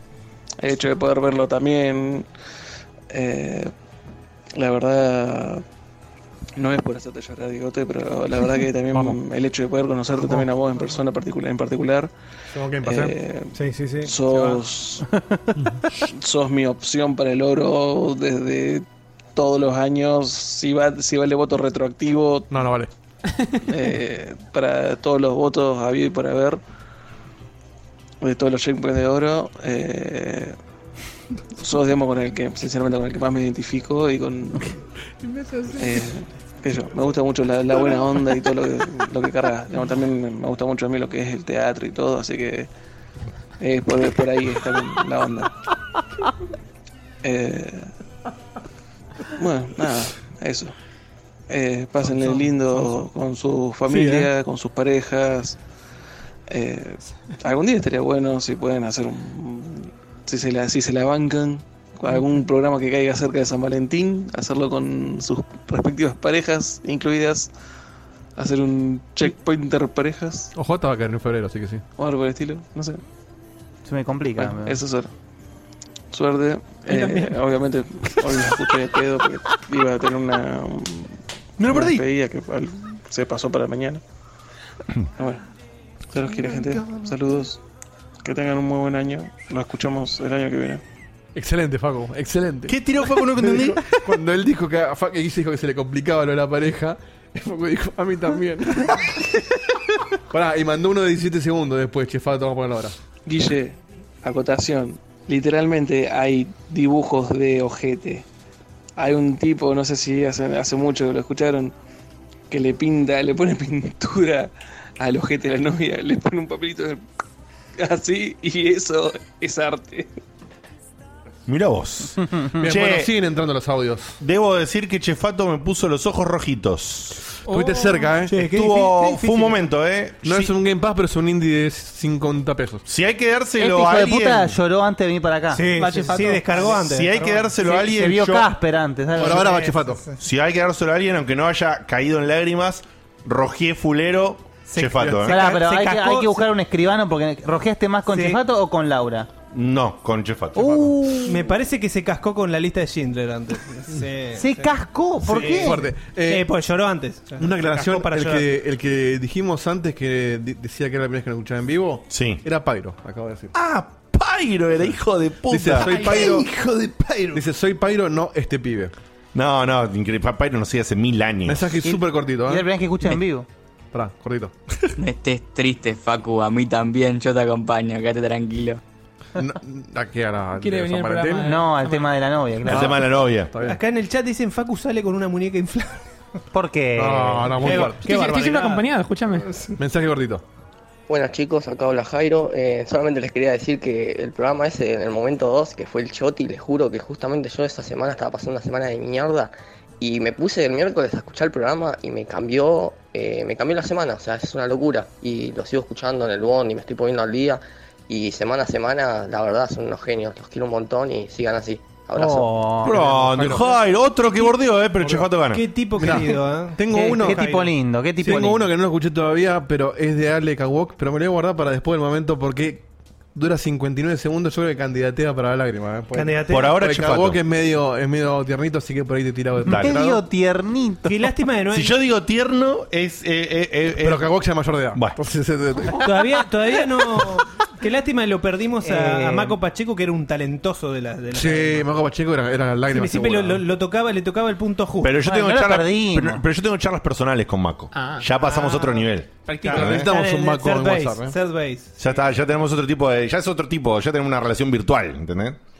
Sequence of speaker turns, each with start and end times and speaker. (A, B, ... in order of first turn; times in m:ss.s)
0:00.6-0:02.3 A
0:03.1-0:03.7 A
0:04.6-0:05.6 A
0:06.6-0:12.1 A
0:12.5-0:13.1 B
0:12.8-0:15.0 A
0:13.5-0:14.1 C
0:14.3-0:14.6 B
0:16.0-0:22.5 A
0:22.5-0:22.9 B
0:23.7-0:26.6 A
0:28.2-0:30.6 A
0:31.6-0:34.7 A
0:35.7-0:42.7 A
0:43.6-0:45.5 A
0:47.2-0:47.9 A
0:49.3-0:50.7 A
0:51.5-0:55.6 A
0:52.2-0:52.8 B
0:53.9-0:54.3 B
0:56.5-1:07.5 A
1:08.4-1:10.5 A
1:10.5-1:11.8 B
1:12.0-1:13.0 A
1:13.8-1:14.8 D
1:14.4-1:15.1 A
1:16.1-1:24.0 A
1:16.9-1:17.2 C
1:21.6-1:22.0 E
1:25.2-1:25.4 A
1:26.1-1:27.6 A
1:28.2-1:30.8 A
1:31.4-1:32.8 B
1:32.7-1:33.8 E
1:33.4-1:39.1 B
1:40.3-1:43.0 B
1:43.2-1:48.2 A
1:49.0-1:51.7 A
1:52.5-1:57.0 A
1:57.8-2:00.1 A
2:01.5-2:03.1 E
2:02.6-2:04.2 B
2:04.2-2:07.3 E
2:07.4-2:08.4 B
2:07.6-2:07.9 F
2:08.2-2:09.6 C
2:08.4-2:10.5 E
2:10.2-2:12.8 B
2:12.8-2:14.6 E
2:13.6-2:16.0 D
2:15.5-2:17.6 C
2:15.8-2:16.4 F
2:16.7-2:18.5 E
2:17.6-2:19.8 D
2:19.2-2:20.0 B
2:20.2-2:25.4 E
2:24.7-2:26.5 C
2:25.0-2:25.4 B
2:25.2-2:29.3 D
2:28.1-2:28.4 C
2:29.5-2:31.1 E
2:30.6-2:31.5 D
2:31.2-2:38.5 C
2:34.4-2:35.8 D
2:35.6-2:36.5 B
2:37.4-2:43.5 B
2:42.1-2:42.4 E
2:43.5-2:46.4 E
2:45.5-2:46.5 B
2:46.0-2:47.4 C
2:47.3-2:48.9 B
2:49.3-2:51.8 E
2:51.4-2:53.2 B
2:51.8-2:53.5 D
2:53.9-2:54.5 B
2:55.0-2:58.8 G
2:59.4-3:01.5 B
3:00.6-3:02.2 F
3:01.4-3:03.0 D
3:02.6-3:03.5 E
3:02.6-3:03.8 B
3:03.6-3:06.1 C
3:06.5-3:07.9 D
3:07.0-3:08.2 B
3:07.6-3:08.8 C
3:08.0-3:09.7 F
3:09.8-3:10.4 B
3:11.1-3:32.5 H
3:32.2-3:33.0 D
3:32.8-3:35.6 E
3:32.8-3:33.7 B
3:35.5-3:38.5 C
3:36.0-3:37.4 B
3:36.9-3:38.6 D
3:38.2-3:50.2 B
3:46.1-3:46.8 C
3:46.5-3:47.4 E
3:49.6-3:50.0 E
3:49.7-3:51.3 D
3:51.0-3:51.9 C
3:51.7-3:54.3 E
3:54.0-3:56.1 B
3:56.0-4:01.9 C
3:58.8-3:59.6 D
4:01.3-4:03.6 B
4:02.9-4:05.2 C
4:05.0-4:10.1 E
4:05.2-4:06.4 D
4:08.4-4:11.9 C
4:09.6-4:11.3 B
4:12.0-4:15.6 E